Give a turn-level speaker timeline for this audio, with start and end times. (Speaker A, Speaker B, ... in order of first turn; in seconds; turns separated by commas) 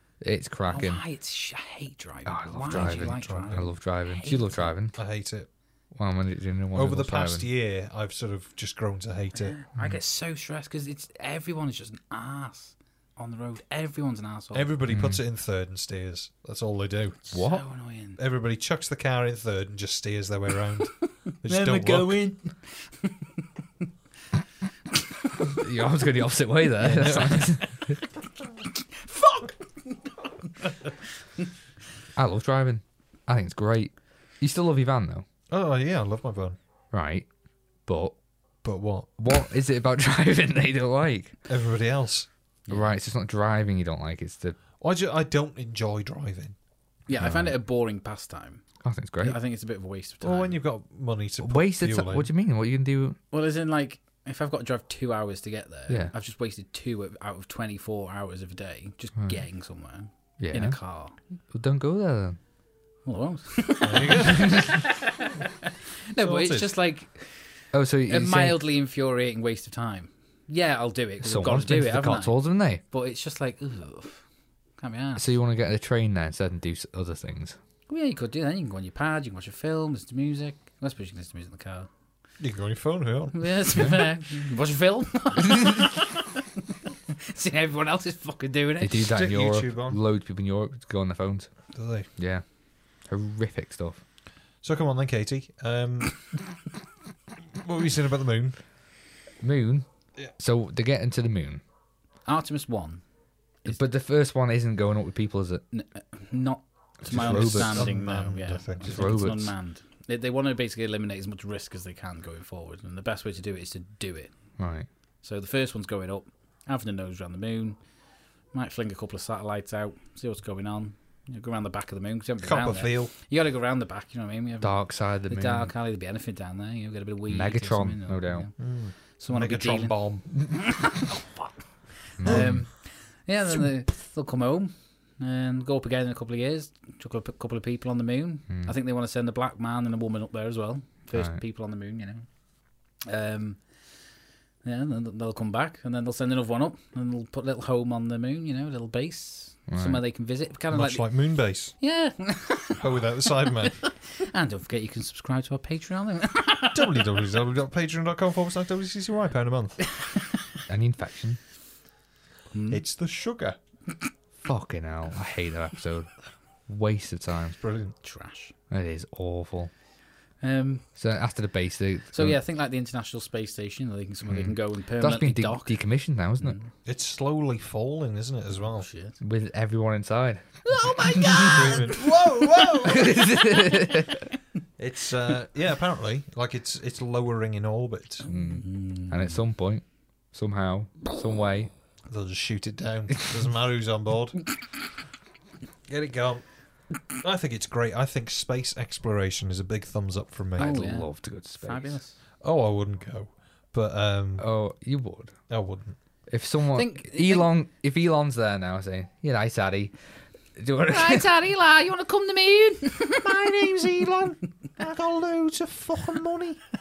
Speaker A: 0.2-1.0, Speaker B: 0.7-4.8, Speaker A: 2.3-5.0, Speaker C: 2.7-3.7, Speaker C: 5.0-5.5, Speaker A: 5.9-7.5, Speaker C: 6.7-9.6, Speaker B: 9.4-14.7, Speaker C: 14.5-17.2, Speaker A: 14.9-15.2, Speaker B: 17.3-18.2, Speaker A: 17.3-17.6, Speaker C: 18.2-22.3, Speaker B: 21.5-22.5, Speaker A: 25.6-28.0, Speaker B: 26.9-27.6, Speaker C: 27.0-27.5, Speaker B: 29.1-30.0, Speaker A: 32.1-35.3, Speaker C: 35.5-36.6, Speaker A: 36.9-37.3, Speaker A: 37.9-38.2, Speaker C: 38.6-39.1, Speaker A: 39.2-41.4, Speaker C: 41.5-42.3, Speaker A: 42.7-44.6, Speaker C: 44.8-46.6, Speaker B: 47.1-48.6, Speaker A: 47.1-47.6, Speaker A: 48.8-49.4, Speaker B: 49.2-50.6, Speaker C: 50.2-52.3, Speaker A: 51.4-53.2, Speaker B: 53.3-61.2, Speaker A: 55.9-56.1, Speaker A: 59.2-59.4, Speaker A: 60.4-60.8, Speaker A: 61.5-62.4, Speaker B: 63.0-65.3, Speaker C: 63.8-64.8, Speaker B: 66.1-74.2, Speaker C: 66.2-66.7, Speaker A: 67.7-68.6, Speaker A: 71.2-72.8, Speaker B: 74.8-75.3, Speaker A: 75.2-77.6, Speaker B: 77.9-81.9, Speaker C: 82.4-83.9, Speaker B: 83.3-86.2, Speaker B: 87.3-89.1, Speaker A: 88.8-91.5, Speaker C: 89.1-90.0, Speaker C: 91.7-92.1, Speaker A: 92.2-92.4, Speaker A: 93.0-94.0, Speaker C: 94.6-96.3, Speaker C: 97.6-98.6, Speaker A: 99.4-101.6, Speaker B: 102.3-103.0, Speaker A: 103.7-105.6, Speaker B: 105.7-114.4, Speaker A: 107.0-107.9, Speaker C: 107.1-109.2, Speaker A: 108.8-109.5, Speaker A: 114.6-114.9, Speaker B: 115.2-117.8, Speaker B: 118.5-131.3, Speaker C: 122.4-123.1, Speaker A: 124.6-125.7, Speaker A: 127.3-128.5, Speaker C: 128.6-130.4, Speaker B: 132.1-142.3, Speaker A: 132.2-132.7, Speaker C: 132.3-132.7, Speaker A: 138.5-138.7, Speaker A: 141.1-141.4, Speaker B: 143.0-143.6, Speaker B: 144.6-152.8, Speaker A: 149.7-150.0, Speaker C: 150.7-151.7, Speaker C: 152.8-153.8, Speaker B: 153.6-157.0, Speaker C: 156.7-159.9, Speaker A: 160.7-161.4, Speaker B: 162.5-162.8, Speaker C: 162.7-163.6, Speaker A: 164.4-166.1, Speaker A: 166.7-167.6, Speaker C: 167.6-167.9, Speaker B: 168.0-168.5, Speaker A: 168.7-169.7, Speaker B: 170.4-170.8, Speaker A: 170.9-172.4, Speaker B: 172.1-175.8, Speaker A: 174.3-176.6, Speaker B: 176.4-176.7, Speaker C: 176.8-178.9, Speaker B: 178.6-179.2, Speaker A: 179.2-181.8, Speaker B: 180.7-182.9, Speaker C: 181.4-183.1, Speaker A: 182.8-184.2, Speaker C: 184.8-188.2, Speaker B: 188.2-189.4, Speaker A: 188.3-191.7, Speaker C: 192.1-194.5, Speaker C: 195.9-200.9, Speaker A: 200.6-202.0, Speaker B: 200.6-202.2, Speaker C: 202.4-204.5, Speaker A: 204.4-205.5, Speaker C: 205.5-206.0, Speaker A: 206.3-210.0, Speaker B: 206.7-207.5, Speaker A: 210.6-211.3, Speaker B: 210.9-213.2, Speaker C: 213.2-216.6